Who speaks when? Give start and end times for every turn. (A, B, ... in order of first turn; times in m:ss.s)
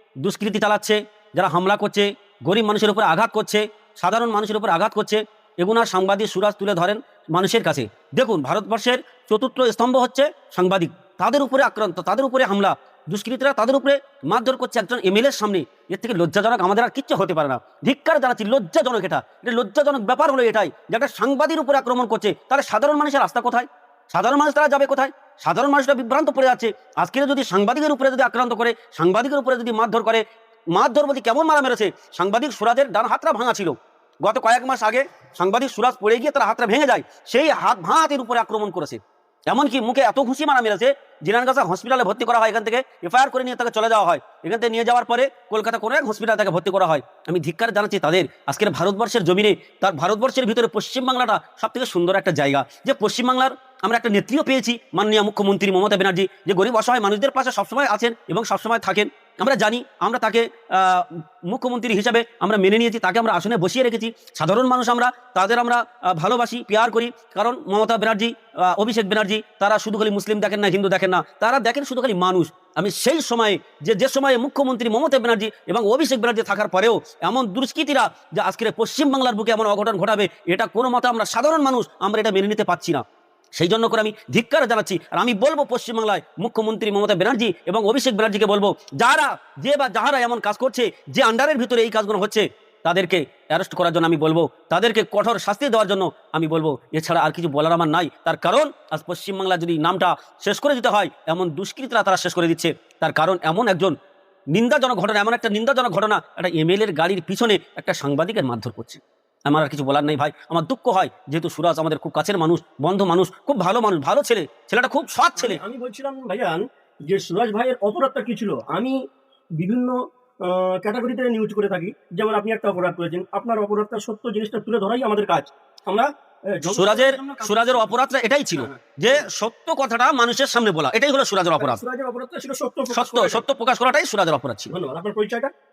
0:00.2-1:23.0 A
1:23.6-1:44.0 A
1:44.5-1:55.6 A
1:55.4-1:59.0 B
1:59.6-2:07.8 B
2:06.7-2:11.8 A
2:08.6-2:09.2 B
2:11.6-2:13.4 B
2:12.9-2:14.7 A
2:14.7-2:15.5 B